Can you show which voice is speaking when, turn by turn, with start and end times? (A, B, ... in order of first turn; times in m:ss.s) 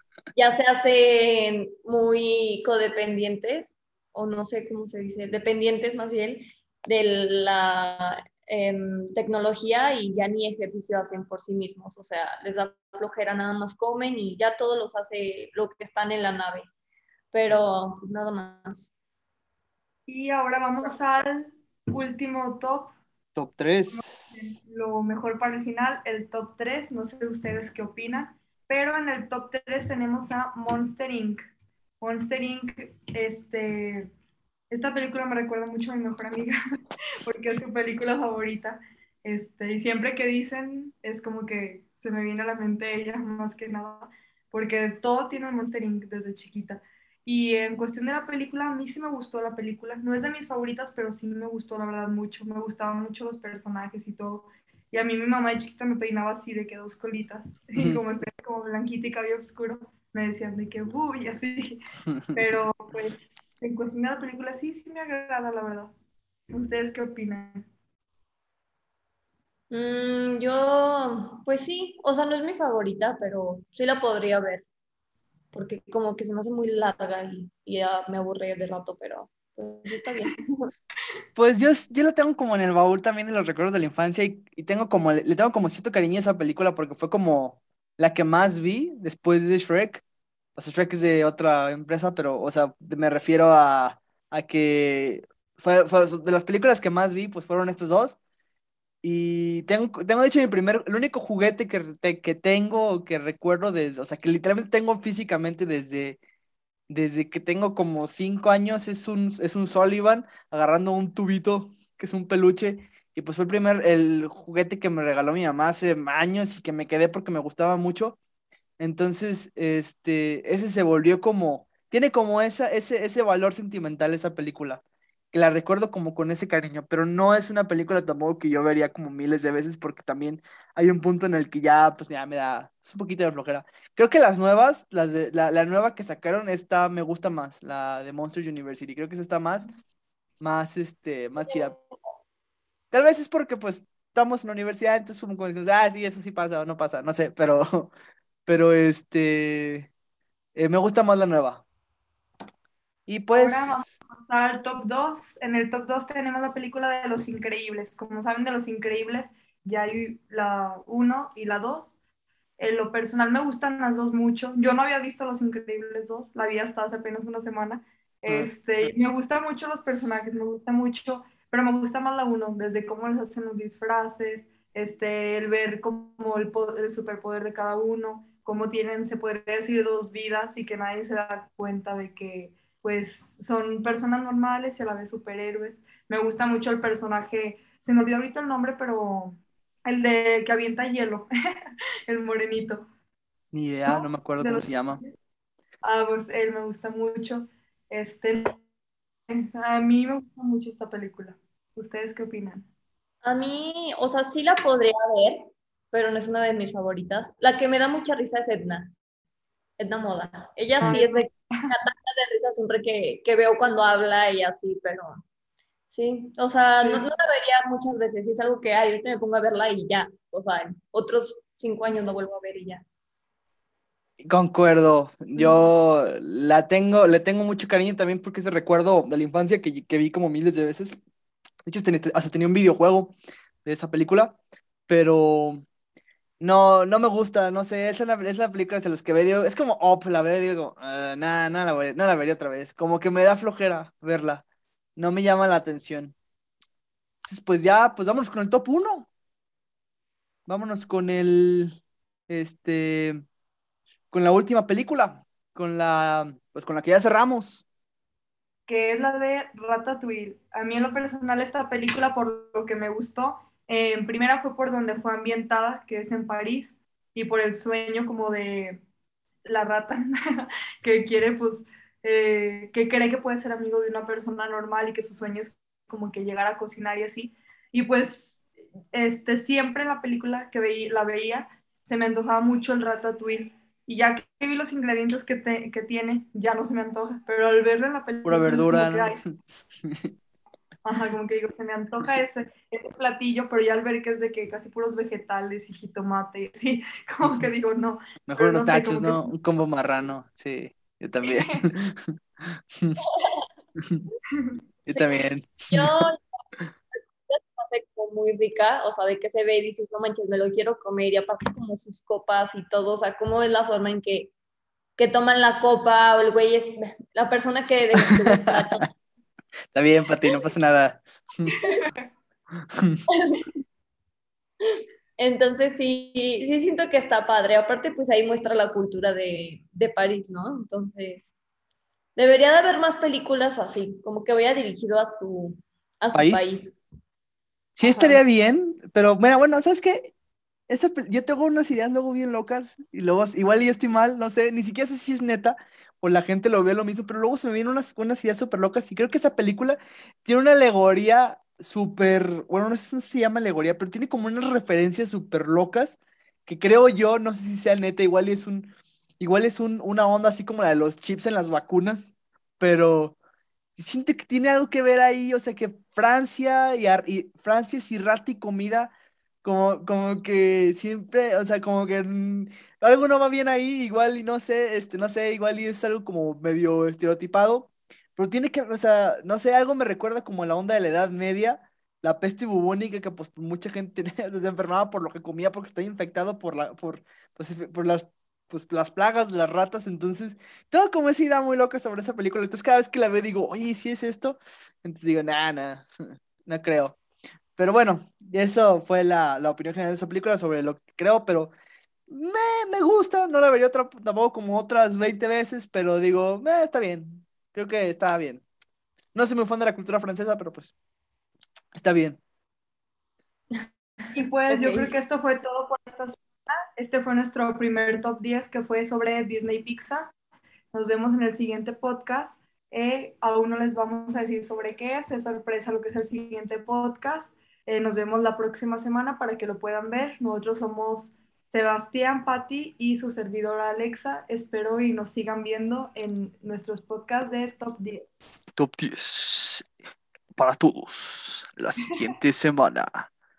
0:00.3-0:16.7 A
0:17.3-0:18.9 A
0:20.1-0:22.9 B
0:23.3-0:24.6 C
0:23.9-0:31.4 B
0:32.0-0:34.1 B
0:34.7-0:36.6 B
0:37.2-1:01.8 B
0:57.8-0:58.0 C
1:02.3-1:05.9 B
1:06.5-1:07.6 B
1:09.7-1:14.6 A
1:15.5-1:20.7 A
1:21.4-1:30.0 C
1:30.6-1:38.2 C
1:39.0-1:46.2 C
1:46.9-1:58.2 C
1:58.8-2:19.7 C
2:20.4-2:21.7 C
2:22.9-2:27.9 C
2:28.4-2:29.9 C
2:30.5-2:31.6 C
2:33.1-2:33.9 C
2:33.3-2:42.0 B
2:42.6-3:11.3 B
2:48.3-2:48.9 C
3:12.1-3:12.9 B
3:13.5-3:15.0 C
3:13.9-3:15.1 B
3:15.8-3:18.6 B
3:19.3-3:22.6 B
3:23.2-3:28.9 A
3:29.8-3:35.2 A
3:30.8-3:31.7 B
3:35.9-3:42.8 A
3:36.8-3:37.1 B
3:44.2-3:51.0 C
3:45.4-3:45.6 B
3:51.6-3:55.6 C
3:56.4-4:04.4 C
4:05.0-4:06.1 C
4:07.2-4:09.1 C
4:10.5-4:11.8 C
4:12.3-4:13.2 C
4:14.1-4:17.6 C
4:18.7-4:28.8 B
4:29.4-4:38.4 B
4:38.9-4:49.2 B
4:48.2-4:49.2 C
4:50.8-4:59.3 B
4:58.2-5:02.1 C
5:04.8-5:06.0 C
5:05.7-5:06.2 A
5:07.3-5:14.3 A
5:15.0-5:18.9 A
5:18.0-5:18.8 C
5:19.7-5:21.6 C
5:22.7-5:23.0 C
5:23.1-5:23.5 A
5:24.6-5:31.3 A
5:32.2-5:36.7 A
5:36.1-5:36.7 C
5:37.8-5:40.1 C
5:37.8-5:38.2 A
5:40.7-6:03.2 C
6:03.8-6:08.9 C
6:09.4-6:35.9 C
6:36.4-6:37.0 C
6:37.6-6:41.5 C
6:42.1-6:48.4 C
6:49.1-6:50.7 C
6:51.7-6:52.2 C
6:53.5-6:54.9 A
6:54.1-7:00.1 B
7:00.7-7:18.1 B
7:18.6-7:19.6 C
7:20.4-7:23.1 C